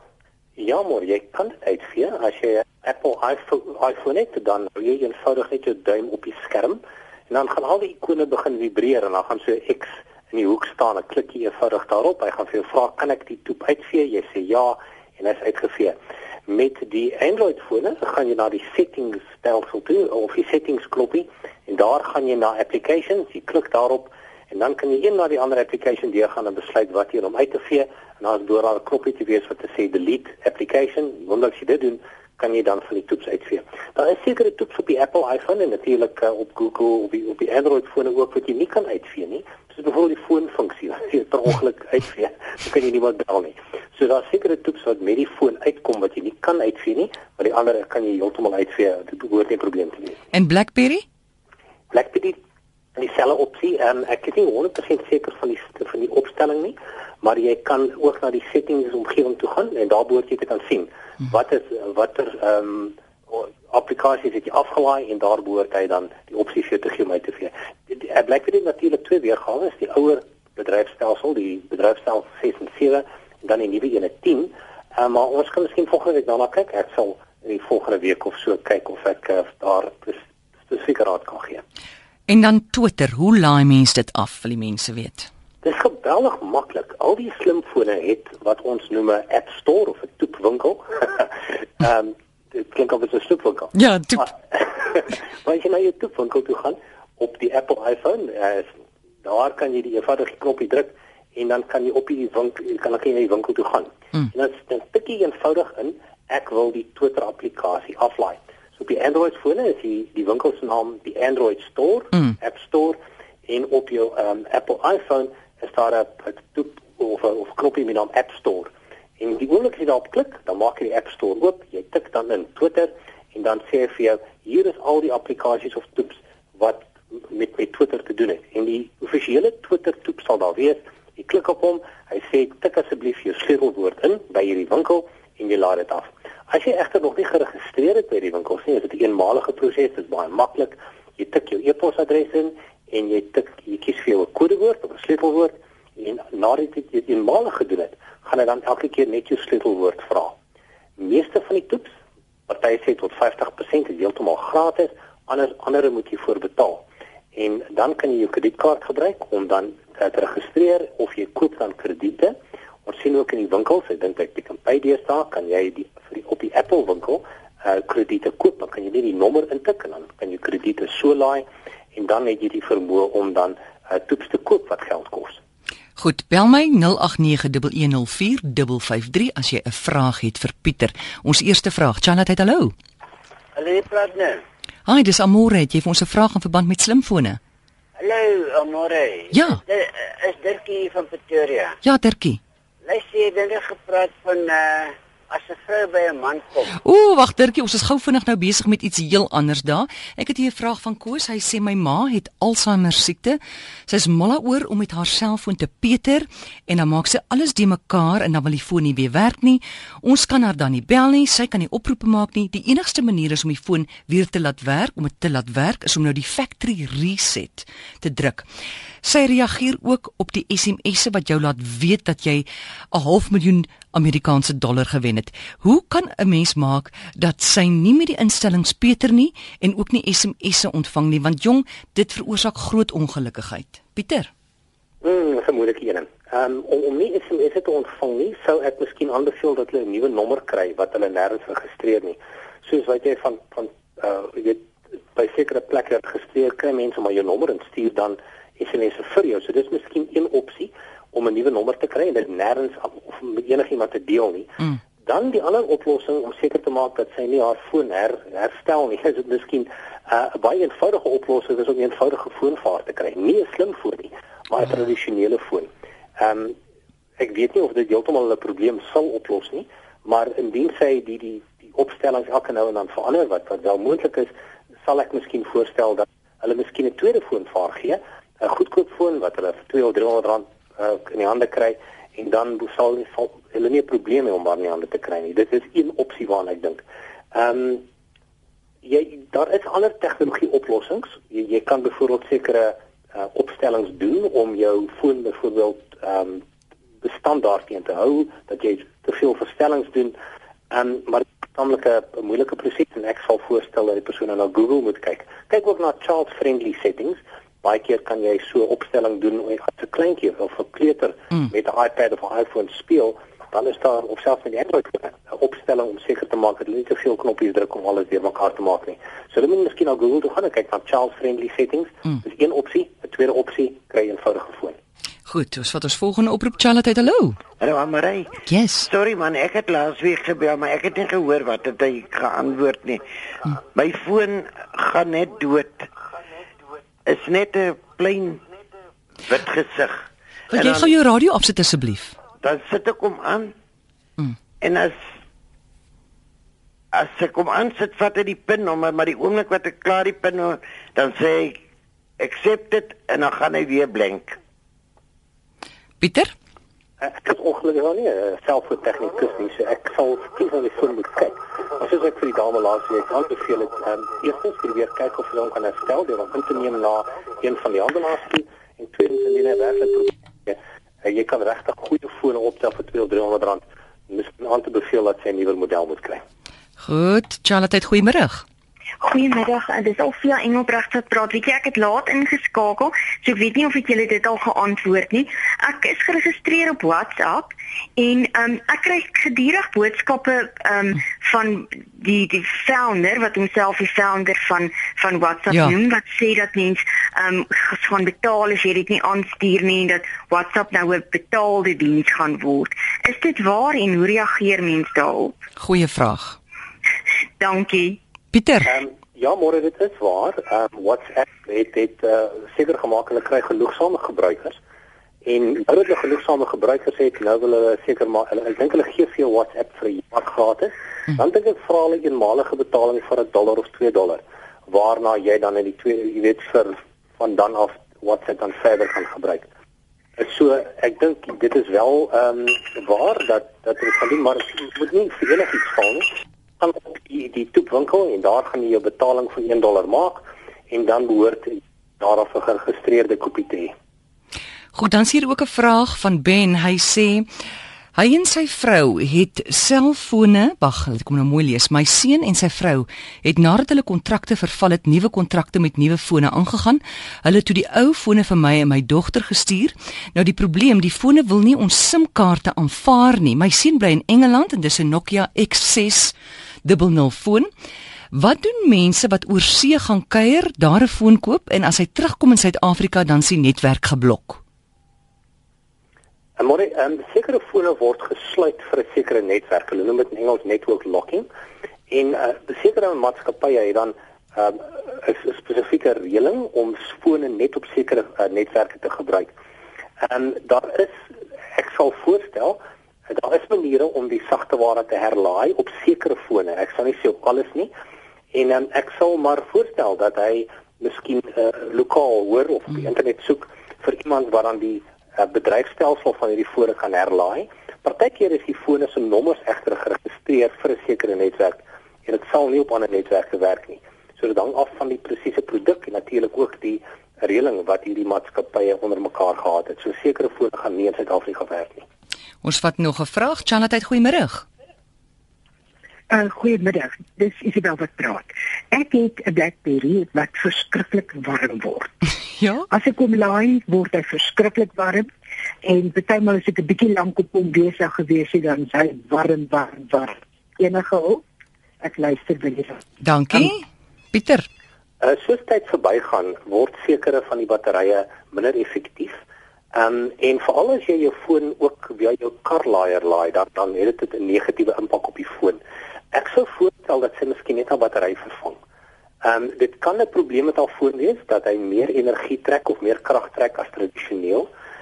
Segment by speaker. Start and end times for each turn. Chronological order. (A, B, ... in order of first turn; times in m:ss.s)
0:00.6-0:06.8 A
0:07.3-0:16.0 A
0:16.5-0:50.2 A
0:50.3-0:51.0 B
0:51.9-0:52.4 A
0:53.0-1:21.6 A
1:22.3-1:25.3 B
1:25.6-1:38.7 A
1:33.7-1:34.3 B
1:39.2-2:30.3 A
2:31.0-2:31.9 A
2:32.5-2:42.3 A
2:42.8-2:55.4 A
2:56.0-3:02.7 B
3:03.6-3:04.4 C
3:04.8-3:07.4 B
3:08.0-3:11.8 C
3:09.3-3:09.6 B
3:11.8-3:12.4 B
3:12.8-3:16.8 C
3:16.8-3:38.4 B
3:39.0-3:54.3 B
3:55.0-4:26.5 A
4:27.2-4:34.3 A
4:34.8-4:47.8 A
4:48.8-4:56.4 A
4:57.0-5:00.1 A
5:00.7-5:24.8 A
5:25.2-5:27.4 B
5:27.6-5:28.3 D
5:28.4-5:28.9 B
5:28.9-5:35.9 D
5:37.0-5:38.4 D
5:39.3-5:40.9 D
5:40.5-5:42.2 B
5:42.4-5:43.5 D
5:44.6-5:45.0 D
5:46.9-5:51.6 D
5:52.2-5:54.4 D
5:56.0-5:56.3 B
5:57.0-6:16.2 A
6:16.8-6:18.4 B
6:19.0-6:45.3 E
6:35.5-6:35.8 B
6:45.6-6:46.4 B
6:47.4-6:48.0 E
6:48.3-6:48.7 B
6:48.6-6:54.6 A
6:55.2-7:09.5 A
7:10.2-7:16.0 A
7:16.6-7:23.7 A
7:24.7-7:27.3 B
7:27.9-7:47.5 B
7:48.1-7:54.4 B
7:56.4-8:01.3 A
8:01.9-8:09.3 A
8:10.0-8:10.9 A
8:11.5-8:12.6 A
8:13.1-8:17.7 A
8:18.3-8:41.8 A
8:42.4-8:44.4 B
8:46.1-8:51.9 F
8:52.4-8:52.7 B
8:52.7-8:55.1 F
8:55.6-9:01.2 F
9:01.8-9:02.8 F
9:03.0-9:04.4 B
9:05.0-9:09.2 A
9:09.7-9:15.6 A
9:16.1-9:18.6 A
9:19.2-9:24.5 A